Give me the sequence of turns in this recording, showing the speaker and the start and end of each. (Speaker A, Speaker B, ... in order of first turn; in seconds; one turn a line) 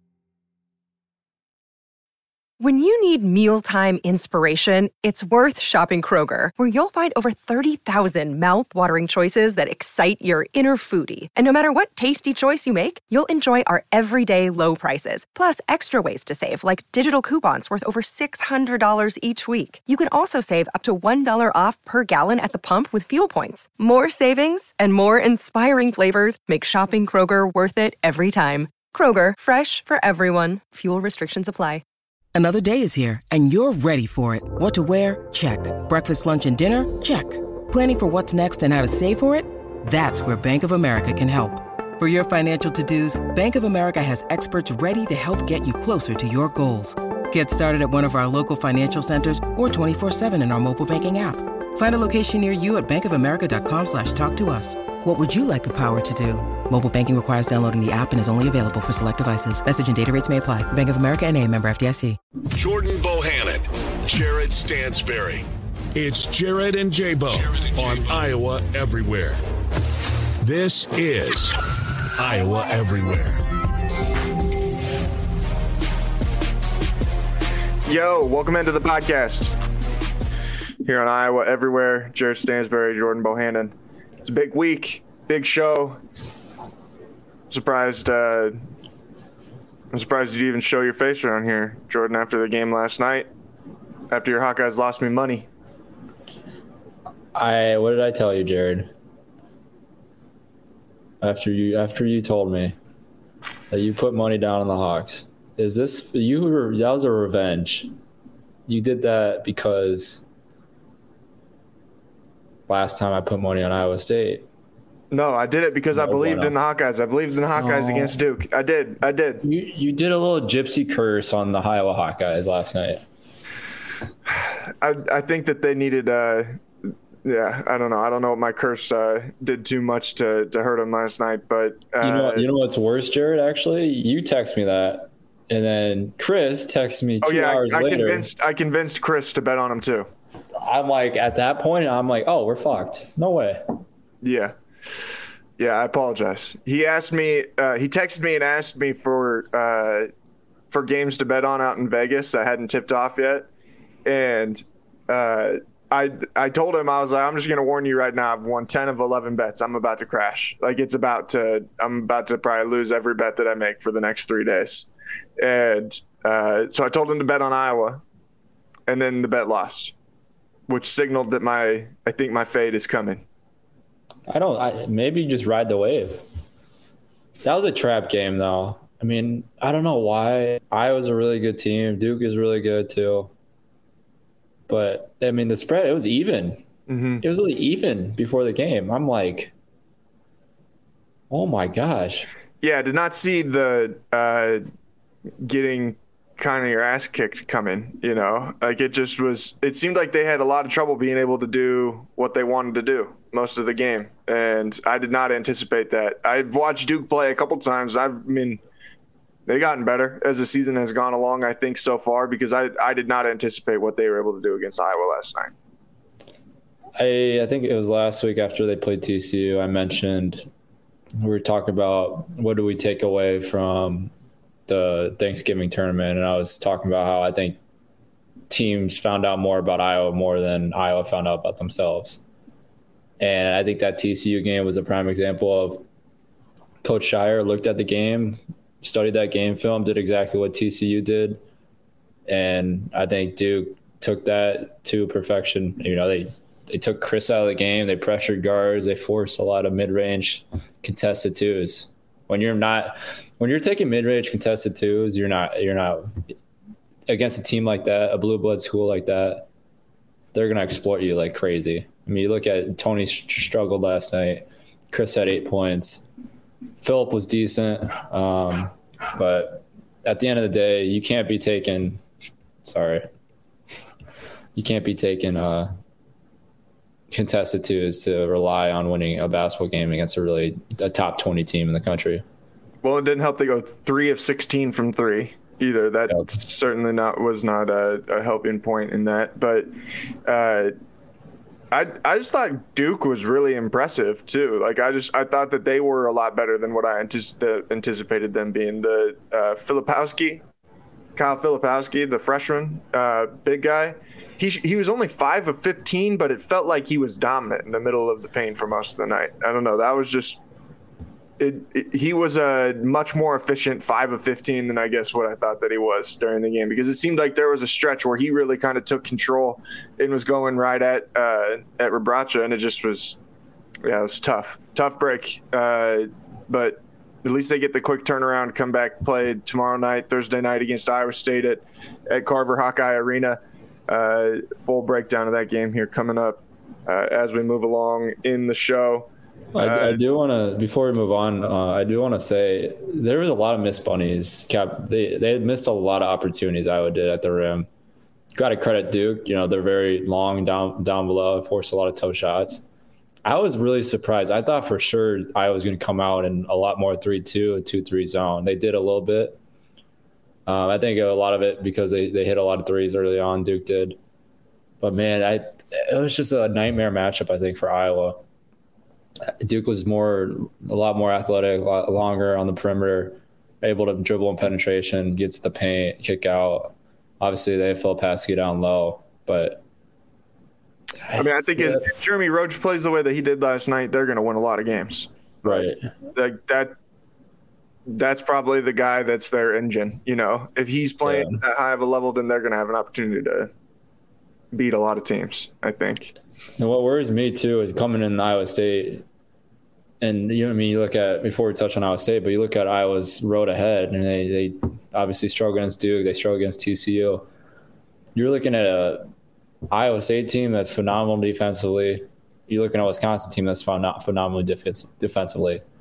Speaker A: 2.6-31.8
Speaker B: 32.3-62.2
Speaker C: 62.5-69.4
Speaker C: 70.4-71.6
Speaker C: 72.2-73.4
Speaker D: 77.8-79.5
Speaker D: 80.8-86.0
Speaker D: 87.5-88.6
Speaker D: 89.9-93.3
Speaker D: 94.1-95.5
Speaker E: 97.3-98.9
Speaker E: 101.2-102.8
Speaker E: 103.7-107.9
Speaker E: 108.7-110.2
Speaker E: 112.7-114.5
Speaker D: 115.1-119.4
Speaker E: 115.9-116.5
Speaker E: 117.5-118.2
Speaker E: 119.4-123.0
Speaker D: 124.3-132.5
Speaker E: 132.0-138.3
Speaker D: 137.2-140.1
Speaker E: 140.6-143.8
Speaker D: 144.2-144.5
Speaker D: 145.6-150.1
Speaker D: 150.7-153.5
Speaker D: 154.1-168.0
Speaker D: 168.9-169.9
Speaker D: 170.7-173.2
Speaker E: 174.3-176.2
Speaker E: 177.4-183.3
Speaker E: 184.7-186.6
Speaker D: 186.9-187.2
Speaker E: 187.2-189.5
Speaker E: 191.3-192.3
Speaker D: 192.6-194.6
Speaker D: 195.4-208.6
Speaker D: 209.5-215.5
Speaker E: 217.0-220.5
Speaker E: 221.2-224.1
Speaker E: 224.7-227.6
Speaker E: 228.5-232.2
Speaker E: 233.2-235.8
Speaker E: 236.8-241.4
Speaker E: 242.3-256.2
Speaker E: 257.1-259.5
Speaker E: 260.3-266.0
Speaker E: 266.8-272.0
Speaker E: 272.6-273.1
Speaker E: 274.5-275.7
Speaker E: 277.1-282.2
Speaker D: 282.8-289.7
Speaker D: 290.2-290.7
Speaker D: 291.7-300.4
Speaker D: 301.1-310.4
Speaker D: 311.4-323.2
Speaker D: 323.8-340.0
Speaker E: 339.5-347.7
Speaker E: 348.3-352.6
Speaker E: 353.2-359.4
Speaker E: 360.4-364.0
Speaker E: 364.8-368.2
Speaker E: 369.3-379.6
Speaker E: 381.1-381.8
Speaker D: 381.1-386.7
Speaker E: 385.4-385.9
Speaker D: 387.9-393.5
Speaker E: 391.0-391.4
Speaker D: 394.5-396.1
Speaker E: 396.6-399.0
Speaker E: 400.0-407.2
Speaker E: 408.1-409.1
Speaker E: 409.7-415.6